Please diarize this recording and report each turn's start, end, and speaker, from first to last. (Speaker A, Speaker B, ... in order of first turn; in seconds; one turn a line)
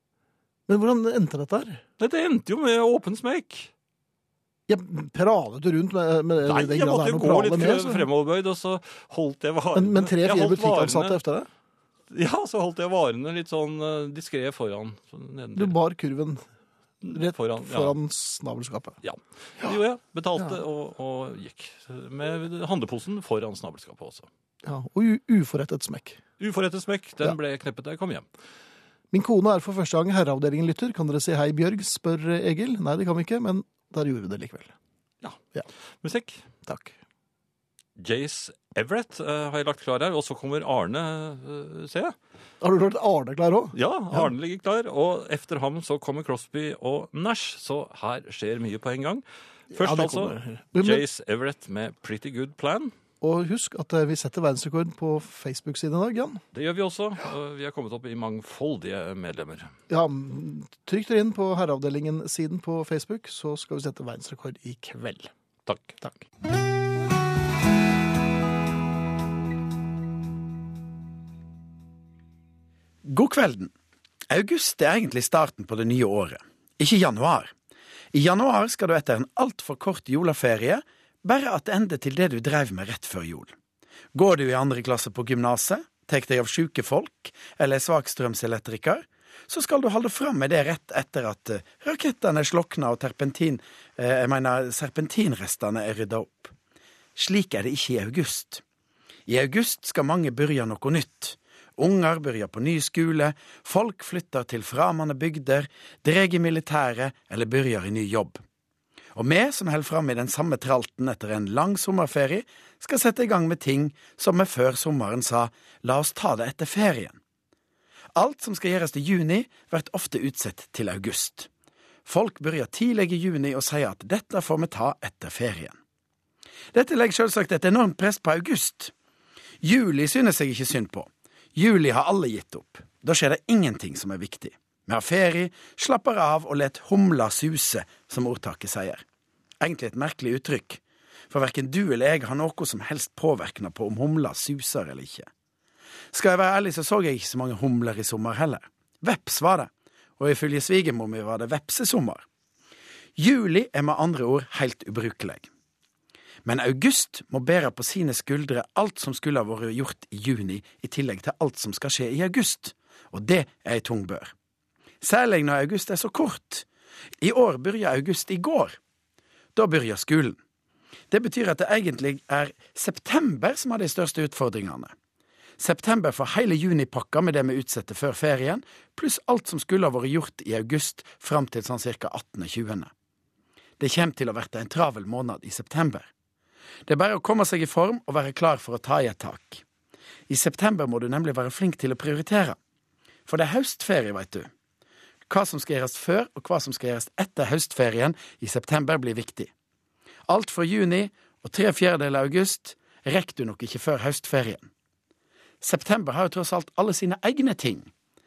Speaker A: 0.7-1.8
Speaker B: 2.0-3.7
Speaker A: 4.7-8.1
Speaker B: 6.4-11.2
Speaker A: 9.7-11.5
Speaker B: 12.1-15.8
Speaker A: 15.5-16.4
Speaker B: 17.0-17.9
Speaker A: 17.0-19.0
Speaker B: 19.0-24.3
Speaker A: 24.6-26.2
Speaker B: 26.4-28.3
Speaker A: 29.1-34.7
Speaker B: 36.0-36.4
Speaker A: 36.6-37.0
Speaker B: 38.0-42.1
Speaker A: 42.6-44.2
Speaker B: 43.7-52.9
Speaker A: 49.7-51.0
Speaker A: 53.2-56.4
Speaker B: 56.5-59.7
Speaker A: 59.9-65.3
Speaker B: 65.7-66.0
Speaker C: 73.0-73.7
Speaker C: 74.3-77.5
Speaker C: 78.1-83.5
Speaker C: 84.1-96.5
Speaker C: 97.2-98.6
Speaker C: 99.3-108.4
Speaker C: 109.1-117.2
Speaker C: 118.1-121.5
Speaker C: 122.0-125.8
Speaker C: 126.7-128.9
Speaker C: 129.6-139.0
Speaker C: 139.6-145.3
Speaker C: 146.1-152.2
Speaker C: 153.2-155.4
Speaker C: 156.4-164.3
Speaker C: 165.0-166.7
Speaker C: 167.2-168.8
Speaker C: 169.5-170.4
Speaker C: 171.1-174.9
Speaker C: 175.6-182.9
Speaker C: 183.8-186.1
Speaker C: 186.9-189.6
Speaker C: 190.3-192.6
Speaker C: 193.3-194.5
Speaker C: 195.3-199.5
Speaker C: 200.3-204.7
Speaker C: 205.6-207.9